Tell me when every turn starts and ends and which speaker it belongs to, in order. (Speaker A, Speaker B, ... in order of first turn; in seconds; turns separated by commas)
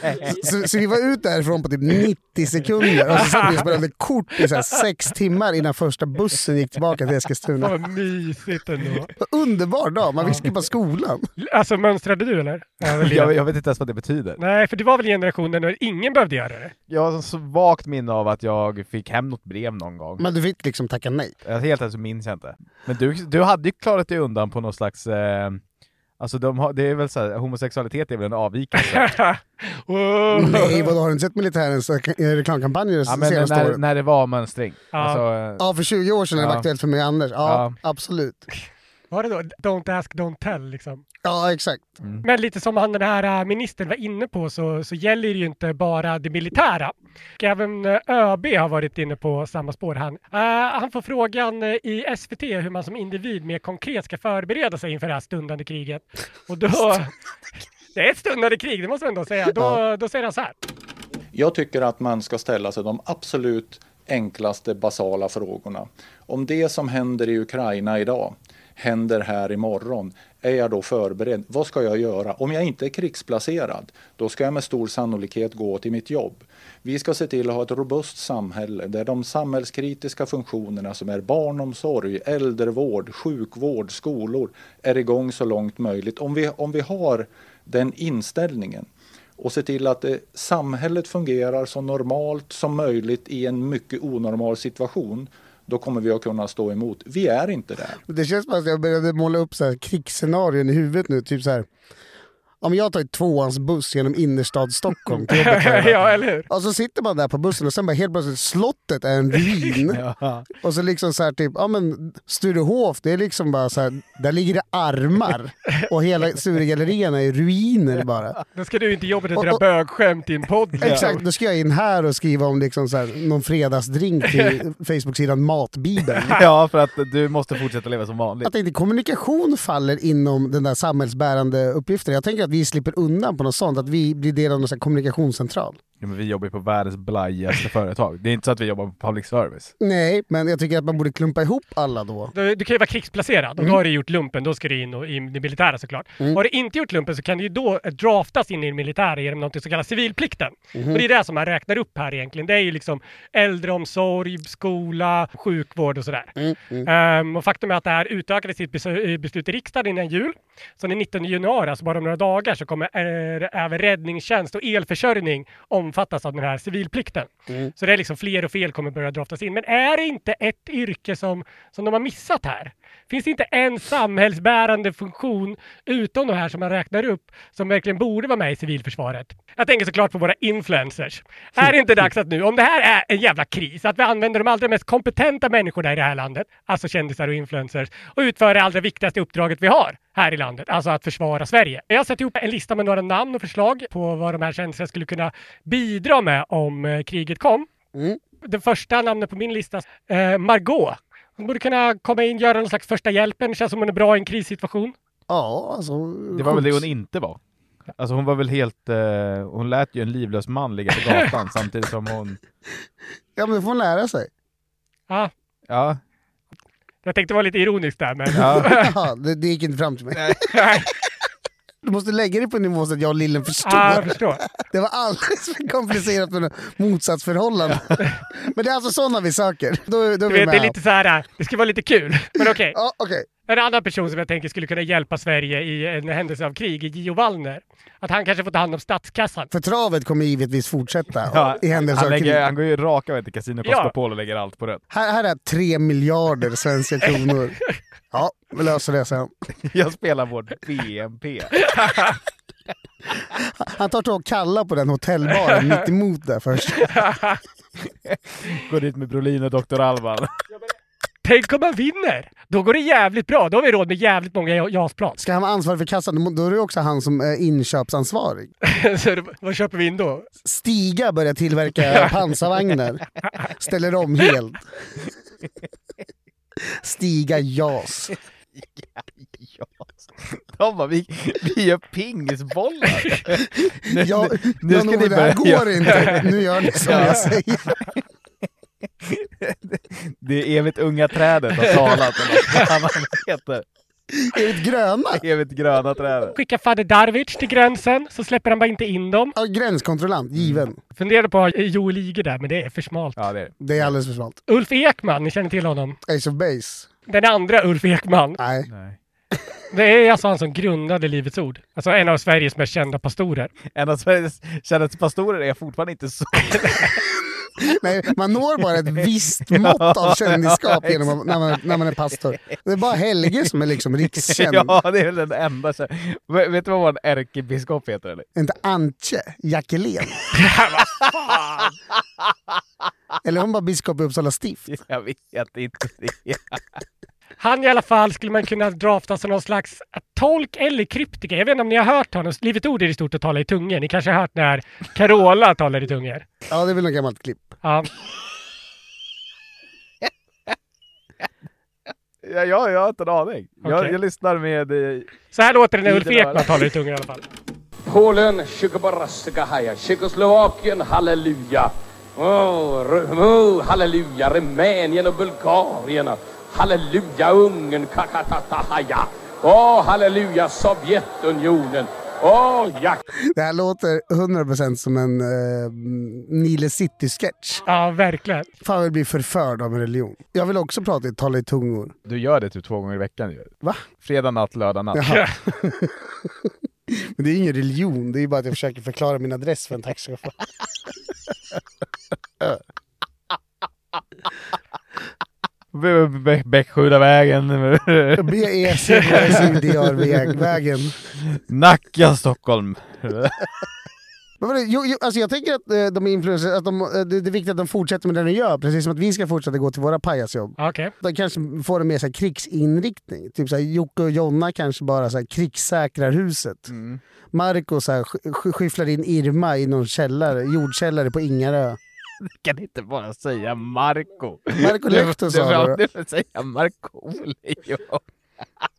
Speaker A: 0.1-7.7, Speaker B: 3.1-3.6, Speaker B: 7.6-9.1, Speaker A: 9.2-11.2, Speaker B: 11.4-13.3, Speaker C: 12.9-14.4, Speaker B: 14.4-16.7, Speaker C: 16.9-20.2, Speaker A: 20.2-21.3, Speaker C: 21.4-25.6, Speaker C: 26.2-29.2, Speaker B: 28.8-30.9, Speaker A: 30.4-33.8, Speaker C: 33.1-35.6, Speaker B: 34.9-35.2, Speaker A: 35.6-38.5, Speaker C: 36.4-36.6, Speaker C: 37.4-37.8, Speaker B: 39.1-41.0, Speaker A: 41.2-42.0, Speaker B: 42.2-57.1, Speaker B: 57.9-60.5, Speaker D: 61.3-88.9, Speaker D: 89.4-98.0, Speaker A: 98.0-101.7, Speaker A: 102.6-110.0, Speaker B: 105.2-106.5, Speaker C: 109.9-110.5, Speaker A: 110.6-118.4, Speaker B: 118.5-121.2, Speaker A: 119.3-119.6, Speaker A: 120.8-126.4, Speaker C: 126.3-128.5, Speaker A: 128.4-135.8, Speaker C: 136.0-139.7, Speaker A: 139.8-142.3, Speaker B: 142.3-197.7, Speaker A: 150.7-151.0, Speaker A: 156.4-156.9, Speaker A: 197.9-198.2, Speaker B: 198.4-204.9, Speaker A: 205.3-206.9, Speaker C: 206.3-207.4, Speaker C: 208.0-212.4, Speaker A: 213.3-214.3, Speaker C: 215.7-216.0, Speaker B: 217.0-218.9, Speaker A: 218.3-220.3, Speaker C: 218.4-218.7, Speaker C: 220.2-220.5, Speaker B: 220.5-220.8, Speaker A: 221.8-230.7, Speaker B: 223.6-224.4, Speaker B: 230.3-232.8, Speaker A: 232.6-233.3, Speaker B: 233.5-239.5, Speaker A: 239.5-242.4, Speaker C: 241.3-244.8, Speaker B: 243.7-243.9, Speaker A: 244.9-247.6, Speaker A: 248.1-249.3, Speaker C: 249.7-251.6, Speaker B: 251.7-252.1, Speaker A: 253.3-256.9, Speaker B: 255.5-255.8, Speaker B: 256.8-257.4, Speaker C: 258.1-260.3, Speaker B: 261.2-265.2, Speaker A: 265.2-268.5, Speaker B: 268.6-270.3, Speaker A: 270.4-273.0, Speaker A: 273.6-274.6, Speaker A: 276.6-278.1, Speaker C: 278.6-287.8, Speaker A: 283.9-287.7, Speaker C: 289.0-293.6, Speaker A: 294.1-295.2, Speaker C: 295.2-296.4, Speaker B: 296.3-299.3, Speaker A: 299.4-300.8, Speaker C: 300.4-300.6, Speaker B: 300.9-303.2, Speaker C: 303.2-303.9, Speaker A: 303.6-304.4, Speaker B: 304.5-306.0, Speaker A: 306.1-306.9, Speaker B: 307.1-308.4, Speaker A: 308.4-308.7, Speaker C: 308.7-309.0, Speaker B: 309.7-313.5, Speaker C: 313.7-317.0, Speaker B: 316.5-316.9, Speaker A: 317.6-324.8, Speaker C: 319.5-321.8, Speaker C: 324.1-328.2, Speaker A: 328.3-330.2, Speaker B: 330.3-331.7, Speaker A: 333.2-334.7, Speaker C: 334.7-336.6, Speaker B: 337.4-346.2, Speaker A: 346.5-347.5, Speaker B: 347.6-347.9, Speaker C: 352.2-355.1, Speaker B: 353.6-353.9, Speaker B: 355.3-357.2, Speaker C: 355.8-356.6, Speaker E: 357.9-373.0, Speaker A: 373.3-377.6, Speaker B: 377.7-378.5, Speaker A: 378.6-381.9, Speaker C: 382.1-385.1, Speaker A: 384.9-390.3, Speaker B: 385.0-385.3, Speaker C: 395.7-398.4, Speaker A: 398.2-401.0, Speaker C: 401.4-403.4, Speaker A: 404.4-416.7, Speaker B: 410.6-410.9, Speaker C: 416.7-417.0, Speaker A: 417.3-421.8, Speaker C: 422.2-428.0, Speaker A: 424.6-425.8